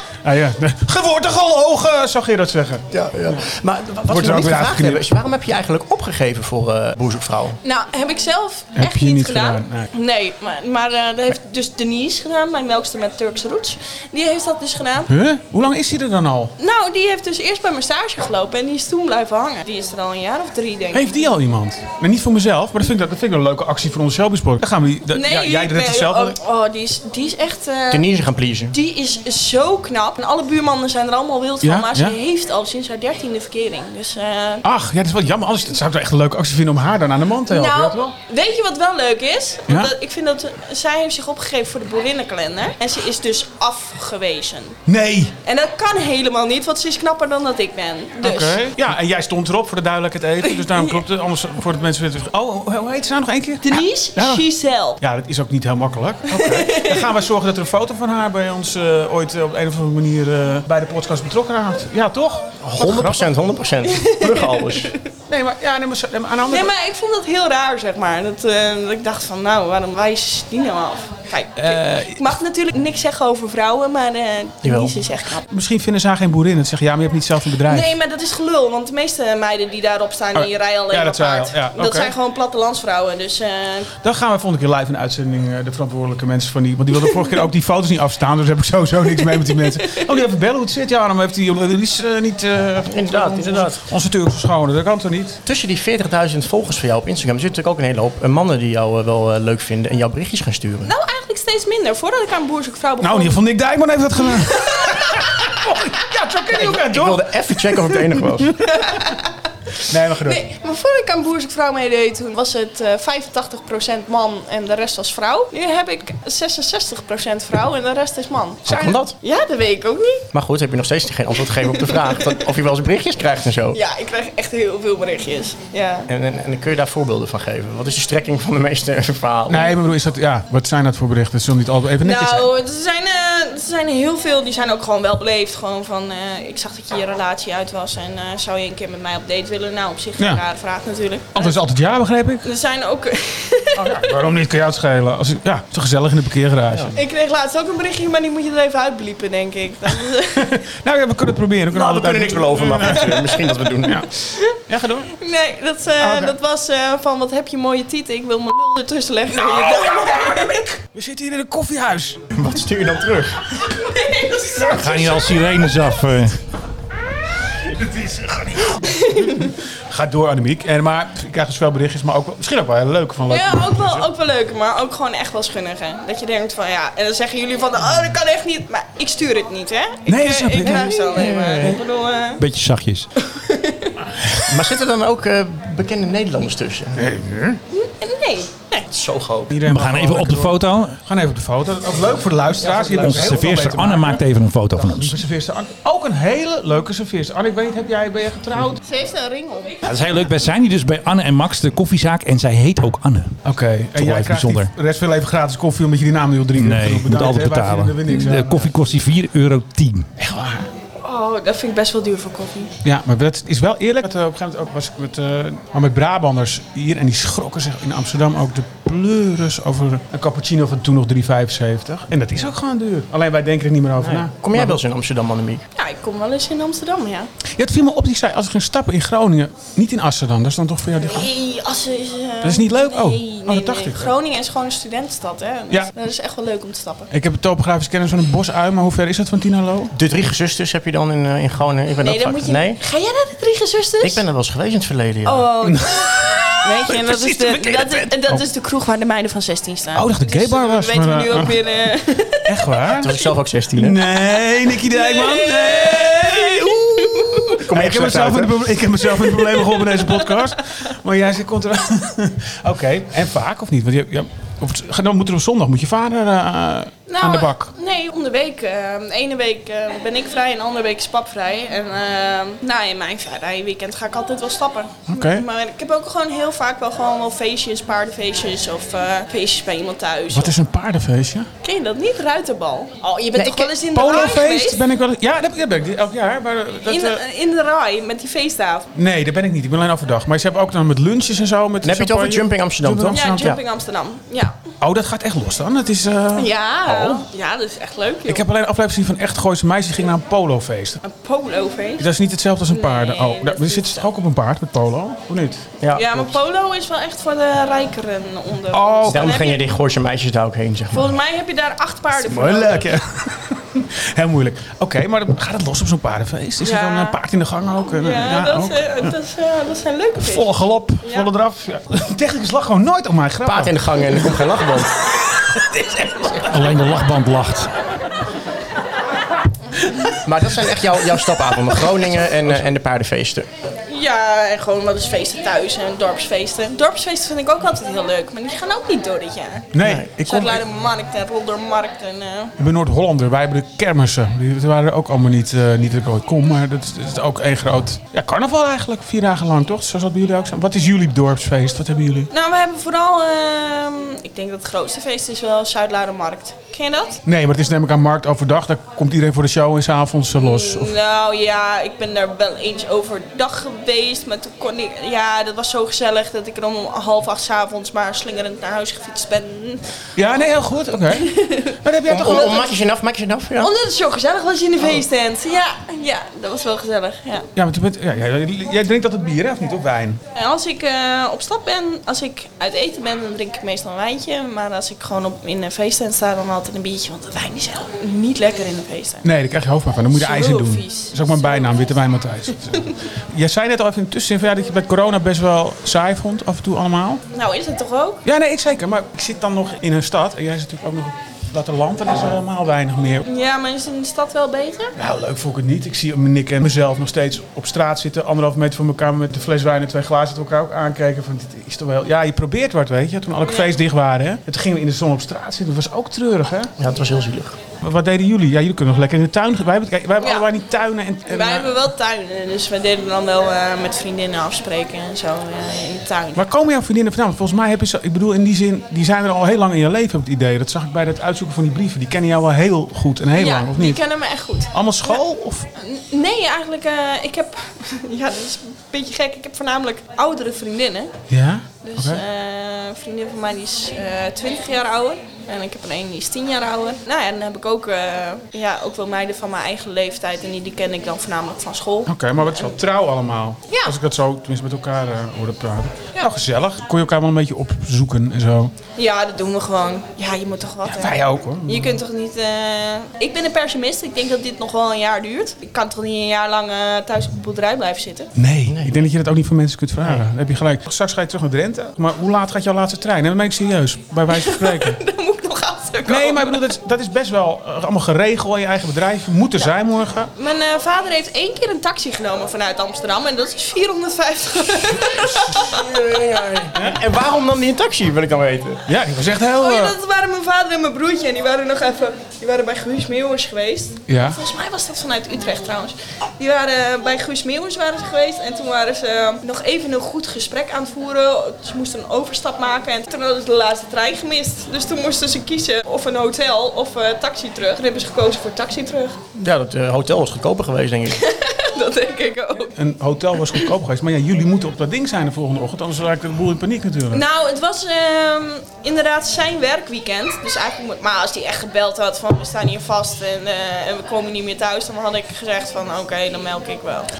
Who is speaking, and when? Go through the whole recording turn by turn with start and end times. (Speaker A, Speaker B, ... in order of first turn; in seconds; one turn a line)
Speaker A: 0.2-3.4
Speaker B: 2.9-7.6
Speaker A: 4.0-5.1
Speaker C: 7.6-15.1
Speaker A: 8.8-9.9
Speaker A: 15.1-16.5
Speaker C: 16.6-21.1
Speaker A: 20.9-26.4
Speaker C: 25.1-28.0
Speaker B: 27.9-28.7
Speaker C: 28.7-34.6
Speaker A: 31.6-32.1
Speaker A: 34.6-38.1
Speaker C: 37.5-44.8
Speaker A: 39.7-39.9
Speaker A: 44.9-45.3
Speaker C: 45.4-48.6
Speaker A: 48.2-54.5
Speaker C: 50.4-51.0
Speaker C: 53.6-55.0
Speaker A: 55.0-63.3
Speaker C: 56.3-57.1
Speaker B: 62.6-64.9
Speaker C: 63.9-65.0
Speaker A: 65.3-66.7
Speaker C: 66.5-75.5
Speaker A: 71.5-72.4
Speaker B: 74.6-75.0
Speaker A: 75.5-77.9
Speaker C: 77.7-83.9
Speaker A: 80.3-82.1
Speaker A: 84.0-95.4
Speaker C: 89.3-90.1
Speaker B: 92.9-93.8
Speaker B: 95.4-100.9
Speaker C: 100.8-103.4
Speaker A: 103.0-107.3
Speaker C: 104.4-105.6
Speaker B: 106.5-108.6
Speaker C: 108.6-120.3
Speaker A: 109.8-110.5
Speaker B: 118.7-119.1
Speaker B: 120.3-123.8
Speaker C: 121.6-122.4
Speaker C: 123.7-126.1
Speaker B: 126.1-129.7
Speaker A: 129.5-132.5
Speaker C: 132.0-141.6
Speaker A: 141.3-142.5
Speaker C: 142.4-144.1
Speaker A: 143.7-147.0
Speaker C: 146.9-150.6
Speaker A: 150.3-153.3
Speaker B: 151.7-154.0
Speaker C: 152.8-160.7
Speaker A: 153.8-155.1
Speaker A: 156.0-156.4
Speaker A: 159.3-162.4
Speaker B: 162.3-163.4
Speaker C: 163.6-165.7
Speaker D: 164.7-166.4
Speaker A: 167.6-174.1
Speaker C: 168.8-169.5
Speaker C: 173.3-182.4
Speaker A: 180.1-180.9
Speaker B: 180.6-181.8
Speaker D: 182.4-183.1
Speaker C: 183.2-184.0
Speaker B: 184.3-187.1
Speaker A: 186.9-187.6
Speaker C: 187.7-188.8
Speaker B: 188.9-189.6
Speaker A: 189.5-198.8
Speaker D: 189.7-191.0
Speaker B: 192.6-193.3
Speaker D: 193.0-195.2
Speaker C: 198.8-199.9
Speaker D: 199.8-203.4
Speaker A: 203.4-208.7
Speaker D: 203.9-204.7
Speaker D: 206.6-210.1
Speaker A: 210.2-210.7
Speaker C: 211.0-212.7
Speaker A: 212.8-224.8
Speaker B: 224.0-225.6
Speaker C: 225.7-227.3
Speaker A: 227.6-231.3
Speaker C: 231.0-237.1
Speaker A: 232.4-234.1
Speaker A: 237.1-239.9
Speaker B: 239.9-242.8
Speaker C: 242.0-244.2
Speaker B: 244.0-245.5
Speaker C: 245.2-253.2
Speaker A: 245.6-248.4
Speaker A: 249.9-251.6
Speaker A: 252.4-253.1
Speaker B: 252.9-254.0
Speaker A: 253.7-267.7
Speaker C: 254.7-257.6
Speaker B: 257.6-258.7
Speaker C: 259.2-260.4
Speaker C: 267.1-280.5
Speaker A: 275.1-275.4
Speaker A: 280.3-281.5
Speaker C: 281.6-284.8
Speaker B: 283.3-283.7
Speaker A: 283.9-287.2
Speaker C: 286.8-288.9
Speaker A: 288.9-293.6
Speaker B: 291.8-293.6
Speaker C: 293.1-294.6
Speaker A: 294.8-297.2
Speaker C: 296.4-298.4
Speaker A: 298.2-301.0
Speaker C: 301.0-302.1
Speaker A: 302.0-305.7
Speaker C: 302.7-304.1
Speaker B: 305.8-306.3
Speaker C: 305.9-309.6
Speaker A: 308.7-309.4
Speaker B: 309.1-311.1
Speaker C: 310.9-312.9
Speaker A: 312.1-319.1
Speaker C: 316.6-317.2
Speaker C: 317.9-320.5
Speaker A: 320.2-324.6
Speaker C: 321.0-321.3
Speaker B: 323.4-324.9
Speaker A: 325.4-327.1
Speaker D: 326.5-327.7
Speaker B: 330.2-333.5
Speaker C: 333.9-342.5
Speaker A: 339.7-340.6
Speaker A: 342.6-352.3
Speaker C: 352.3-357.2
Speaker A: 357.2-360.9
Speaker C: 360.4-369.8
Speaker A: 370.1-372.7
Speaker C: 371.1-372.7
Speaker B: 372.1-373.7
Speaker C: 373.6-377.5
Speaker A: 377.6-380.2
Speaker C: 380.3-389.3
Speaker A: 389.2-397.2
Speaker C: 390.1-391.7
Speaker C: 397.3-398.2
Speaker A: 398.2-403.2
Speaker C: 403.2-404.9
Speaker A: 404.9-416.7
Speaker C: 413.4-413.7
Speaker B: 416.8-417.6
Speaker A: 417.8-421.8
Speaker C: 420.2-420.4
Speaker C: 421.3-426.4
Speaker A: 426.3-434.0
Speaker C: 433.4-435.2
Speaker A: 434.7-435.7
Speaker C: 435.7-441.1
Speaker A: 441.3-442.2
Speaker C: 441.8-452.7
Speaker A: 452.1-458.7
Speaker C: 453.7-453.9
Speaker C: 458.9-468.3
Speaker A: 460.8-462.0
Speaker A: 468.3-475.0
Speaker B: 468.7-469.0
Speaker C: 474.3-476.6
Speaker A: 476.1-480.3
Speaker C: 480.4-486.2
Speaker B: 485.3-488.8
Speaker A: 486.7-487.0
Speaker A: 488.9-489.9
Speaker C: 489.6-509.2
Speaker A: 494.1-494.4
Speaker B: 509.3-511.2
Speaker C: 511.1-512.8
Speaker A: 512.8-517.2
Speaker C: 517.1-527.1